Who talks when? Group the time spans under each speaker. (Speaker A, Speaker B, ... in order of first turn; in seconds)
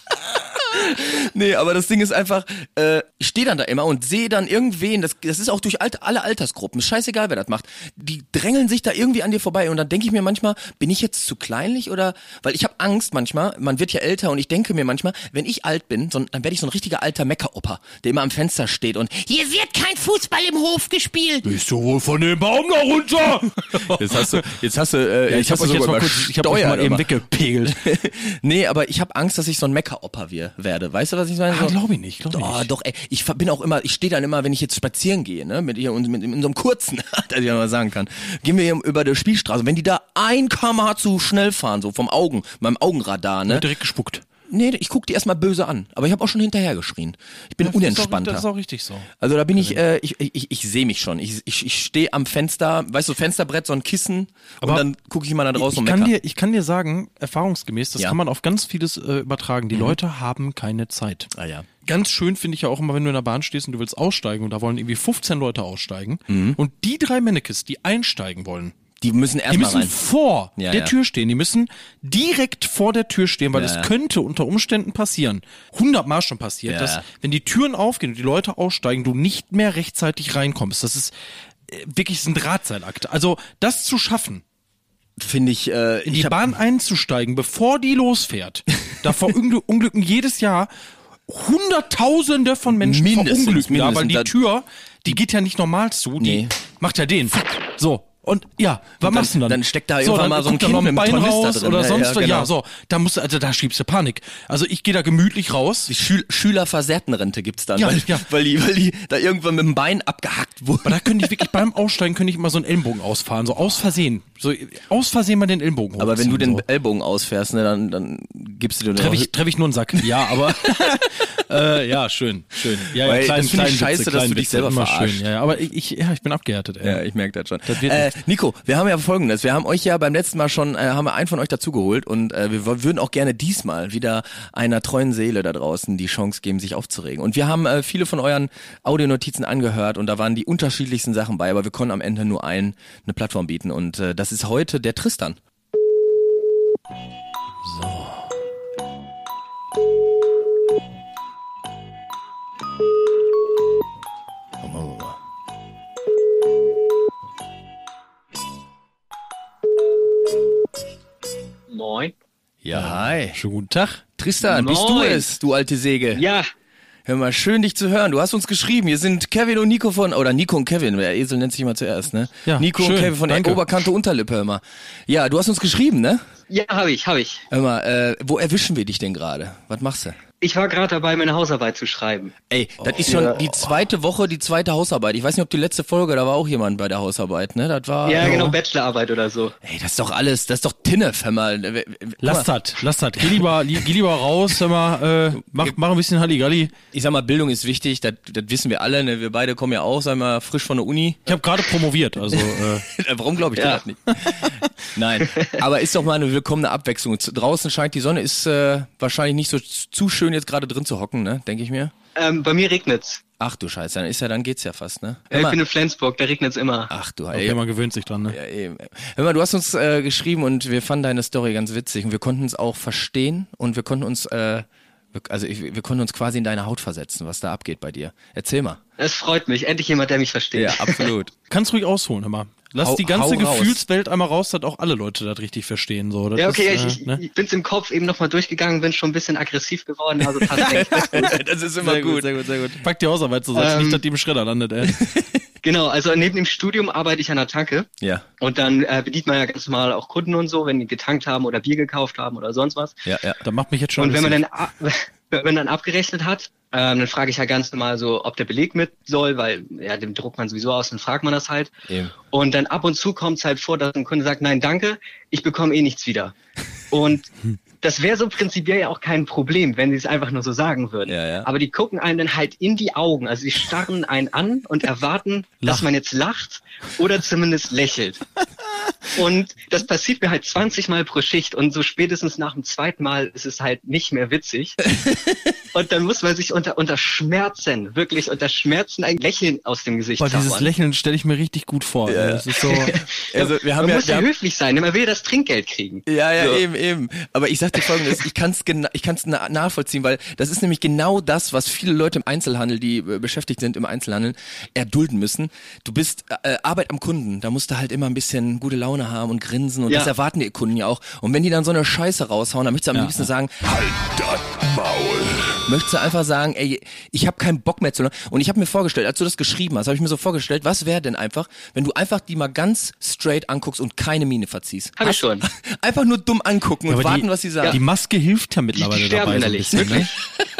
Speaker A: 0.7-21.5, 23.8-27.1, 27.6-31.8, 32.3-43.7, 44.5-48.5, 49.2-56.1, 61.3-61.7, 66.3-66.6, 69.0-69.9, 70.5-70.9, 73.5-73.9, 76.7-77.0, 85.2-86.4, 92.8-94.3, 96.2-96.5, 99.0-102.5, 105.9-111.4, 116.0-119.3, 119.9-120.4, 122.9-125.2, 126.8-145.4, 154.6-155.2, 162.6-163.4, 164.2-166.2, 167.1-176.2, 177.5-180.2, 182.5-188.6, 189.6-192.5, 195.5-195.7, 196.9-201.4, 202.3-211.9, 213.4-215.6, 216.9-217.6, 218.3-228.8, 230.5-231.3, 232.8-233.8, 240.6-242.8, 245.0-245.4, 253.0-253.4, 261.9-262.1, 271.1-271.5, 285.1-285.3, 292.1-294.3, 296.1-314.5, 315.1-327.8, 329.7-330.4
Speaker B: 21.4-24.5, 25.3-28.0, 31.5-32.7, 43.5-44.2, 47.6-49.8, 55.5-61.3, 61.8-68.7, 69.5-81.1, 81.7-84.4, 86.0-90.7, 91.3-105.9, 107.7-108.3, 110.8-116.6, 118.9-127.0, 127.7-128.1, 147.6-148.3, 162.7-164.0, 172.4-173.6, 188.2-188.6, 192.2-196.7, 201.2-202.9, 204.2-204.5, 217.3-218.4, 231.5-237.2, 240.5-245.2, 253.4-254.4, 275.6-275.9, 290.2-292.9, 312.9-313.3, 326.9-330.1
Speaker C: 161.7-162.1, 164.4-165.3, 166.1-166.5, 176.5-177.4, 180.4-182.3, 183.1-183.5, 188.0-189.5, 203.6-203.8, 205.3-205.6, 212.2-213.2, 215.3-216.9, 229.0-231.1, 236.3-241.3, 243.5-244.0, 245.6-247.9, 248.4-253.0, 254.0-261.7, 262.3-266.3, 266.9-267.3, 267.8-278.2, 279.1-284.9, 285.7-290.7, 292.6-296.0, 325.0-325.4, 328.8-330.1